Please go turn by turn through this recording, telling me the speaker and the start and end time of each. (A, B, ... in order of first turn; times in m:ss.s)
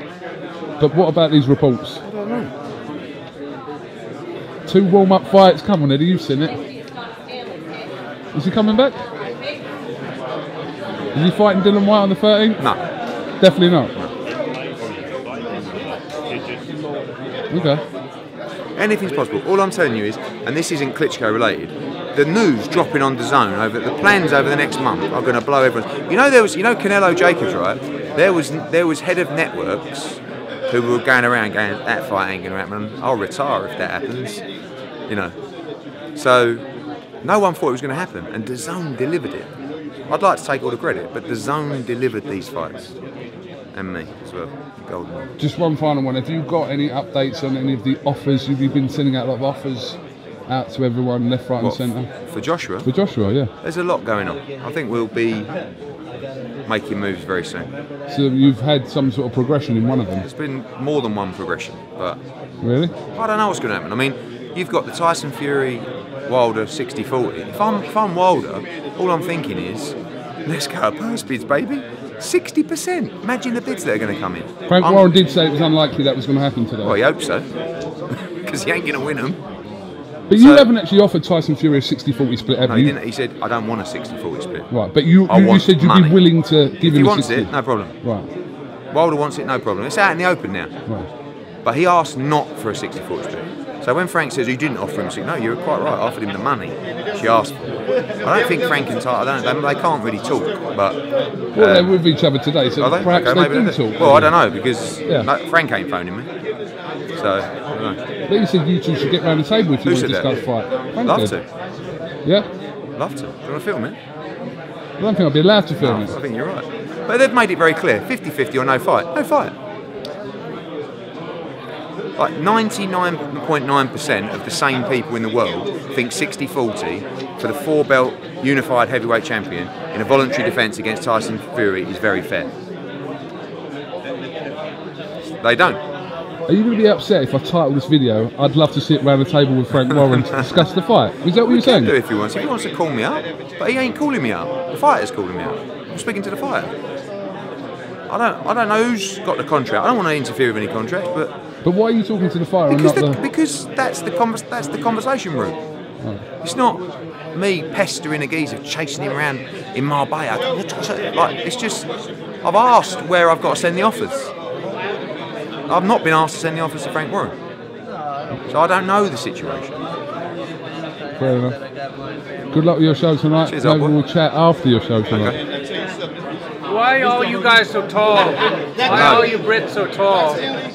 0:00.8-0:02.0 A
0:02.0-0:02.5 B
0:04.6-0:06.6 A
0:08.3-0:09.0 A
0:11.1-0:12.6 A
0:13.4-0:13.9 A
0:17.5-0:17.8 A
0:18.8-0:34.4 B
0:35.1-0:35.3 B
0:36.2-0:36.6 B
0:37.2-0:39.5 B
0:40.1-0:42.9 B
0:43.7-0:45.3 B
0:45.4-0:52.1 A
0:51.6-0:52.9 B
0:52.8-0:53.5 A
0:53.6-0:55.5 B
0:56.6-0:57.7 B
0:58.1-1:00.3 A
1:00.2-1:02.2 B
1:02.6-1:02.9 A
1:03.1-1:15.1 B
1:14.7-1:17.0 A
1:16.8-1:17.5 B
1:18.1-1:19.4 B
1:20.3-1:22.9 A
1:20.3-1:20.7 B
1:22.6-1:24.7 B
1:24.7-1:28.3 A
1:25.3-1:26.2 B
1:26.8-1:27.9 B
1:28.9-1:30.7 B
1:31.6-1:41.0 B
1:41.5-1:41.9 B
1:41.5-1:44.4 A
1:42.8-1:46.3 B
1:47.2-1:48.0 B
1:48.3-1:51.4 A
1:49.8-1:50.4 B
1:51.0-1:51.4 B
1:53.0-1:54.0 B
1:55.0-1:56.2 A
1:55.8-1:59.5 B
2:02.2-2:12.5 B
2:15.4-2:15.8 B
2:16.5-2:21.9 A
2:19.7-2:20.5 B
2:21.4-2:26.7 B
2:28.1-2:31.3 B
2:31.6-2:33.2 A
2:32.7-2:35.6 B
2:36.4-2:36.8 B
2:37.3-2:41.9 B
2:42.4-2:44.3 B
2:45.7-2:47.3 B
2:48.5-2:49.8 B
2:51.2-2:51.6 A
2:52.5-2:55.4 A
2:53.5-2:54.0 B
2:55.1-2:55.4 B
2:56.6-3:00.5 C
2:58.9-2:59.4 B